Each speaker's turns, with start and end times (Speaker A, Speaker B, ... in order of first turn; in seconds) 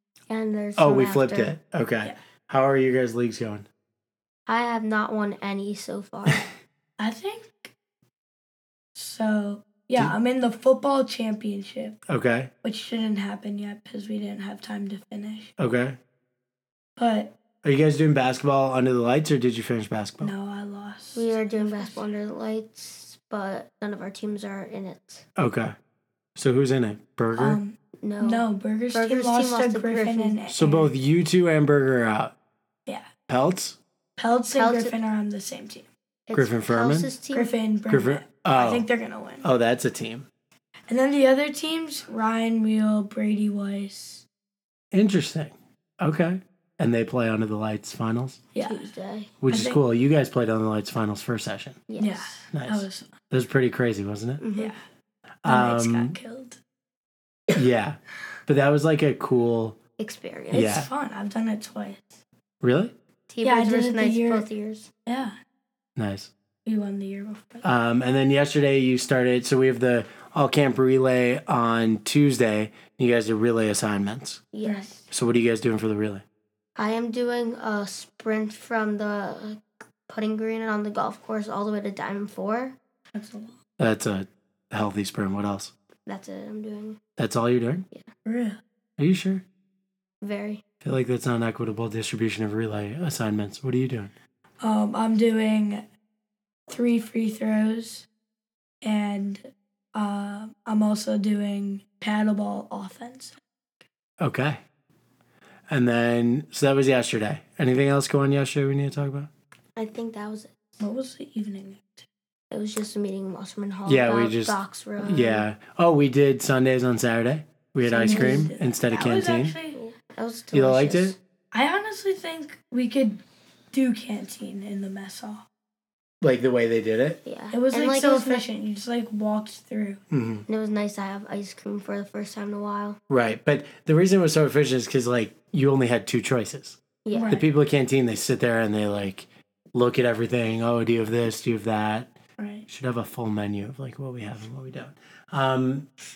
Speaker A: 0.3-1.5, 4.5-6.4, 21.1-25.2, 28.0-30.4, 34.5-35.0, 36.3-37.6, 48.6-49.4, 51.9-52.4, 54.4-54.8, 60.0-60.7, 63.3-64.9, 74.5-75.0, 76.8-82.7, 86.0-87.0, 90.2-90.6, 109.8-110.8, 112.5-115.5, 118.0-118.5, 119.7-121.2, 127.2-128.4, 130.5-133.0, 137.0-137.4
Speaker B: 0.8-3.6, 12.1-12.5, 15.6-16.0, 17.6-20.3, 25.4-25.7, 26.4-27.6, 30.5-32.3, 33.3-33.8, 36.3-37.1, 37.9-38.9, 39.4-40.3, 44.9-48.4, 49.4-51.8, 52.5-54.4, 55.4-56.2, 57.5-59.8, 60.5-60.9, 62.6-62.9, 66.0-66.3, 67.6-74.4, 75.1-76.2, 83.8-85.7, 87.2-87.8, 89.0-89.4, 90.8-94.1, 104.2-104.6, 105.7-109.3, 113.8-119.5, 120.5-121.2, 126.2-127.2, 130.1-130.4, 133.1-142.1, 142.7-145.9
Speaker C: 7.0-7.7, 8.9-12.0, 12.6-15.5, 17.0-17.3, 20.2-22.1, 27.4-30.9, 34.2-35.9, 37.3-39.5, 40.9-44.2, 48.5-48.9, 49.5-49.8, 52.0-53.1, 54.5-54.8, 55.4-56.6, 60.5-62.2, 63.4-64.5, 65.0-65.3, 66.7-67.7, 83.1-83.5, 88.2-88.6, 94.6-95.8, 96.7-98.0, 98.8-103.4, 110.8-112.1, 117.8-119.8, 121.5-125.4, 127.5-130.0, 137.1-137.4, 142.4-142.7